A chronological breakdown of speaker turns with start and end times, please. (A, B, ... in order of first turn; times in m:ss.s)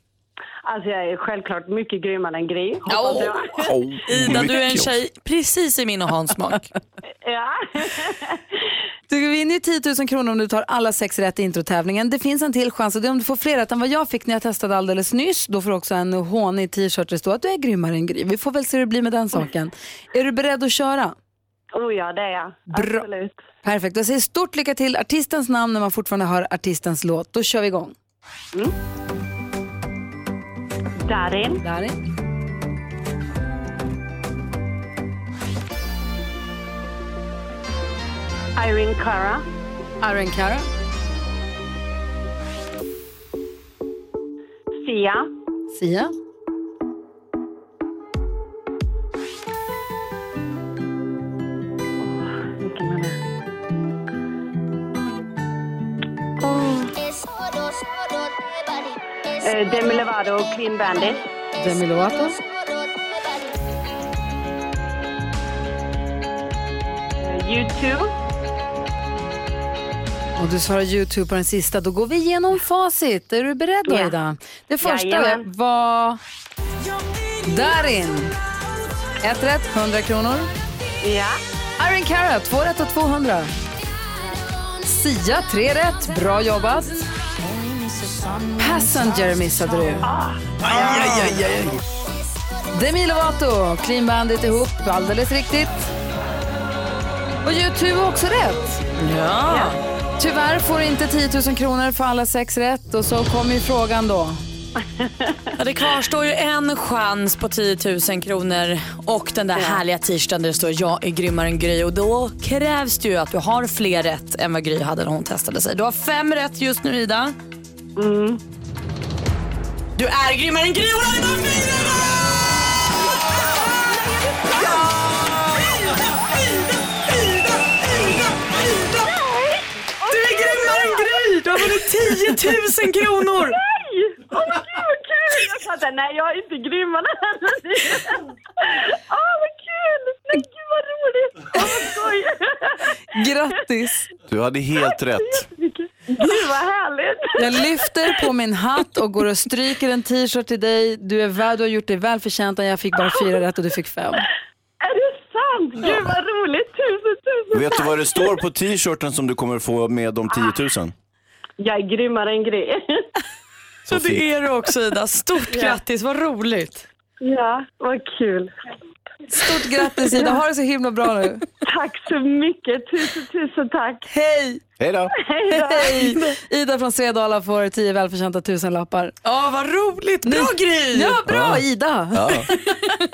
0:00.6-0:03.7 A
0:02.9-0:06.7 B
0:03.6-0:05.0 C
0:07.2-0:08.4 A
0:09.1-0:21.2 D
0:21.8-0:23.4 A
0:22.7-0:23.0 D
0:23.6-0:28.0 D
0:31.1-0:31.6 A
0:31.6-0:32.0 D
0:38.6-0:39.4 A
0:40.0-0:40.7 D
0:44.8-0:45.3 A
0:45.7-0:46.1 D
0:52.0-0:53.2 A
0:56.4-0:56.9 A
0:59.4-1:01.2 A
1:01.6-1:02.4 D
1:07.2-1:08.1 A
1:10.4-1:16.2 D
1:14.8-1:15.4 A
1:17.5-1:18.4 D
1:19.2-1:20.5 D
1:21.0-1:21.4 A
1:21.8-1:23.5 D
1:24.8-1:27.0 D
1:27.4-1:30.0 B
1:28.6-1:30.1 D
1:30.1-1:30.4 A
1:30.7-1:31.3 D
1:30.7-1:31.4 C
1:30.8-1:31.6 B
1:32.7-1:35.9 D
1:37.4-1:38.8 D
1:39.0-1:39.8 B
1:39.5-1:39.8 A
1:40.2-1:44.4 D
1:44.8-1:45.4 A
1:45.6-1:57.4 B
1:58.0-1:58.4 A
2:00.0-2:02.0 B
2:09.1-2:11.3 A
2:10.1-2:13.6 B
2:13.5-2:22.9 A
2:23.1-2:24.1 D
2:24.3-2:25.5 C
2:24.8-2:27.7 A
2:27.4-2:34.3 D
2:34.8-2:38.3 A
2:37.5-2:40.9 C
2:41.6-2:43.1 A
2:43.9-2:44.2 C
2:43.9-2:46.9 B
2:45.5-2:45.8 A
2:47.2-2:48.5 A
2:49.3-2:51.4 D
2:51.6-2:54.1 A
2:54.1-2:54.6 D
2:54.8-2:55.1 C
2:55.1-2:56.1 A
2:55.5-2:59.2 D
2:59.2-3:01.2 B
3:00.2-3:02.5 D
3:01.3-3:02.5 C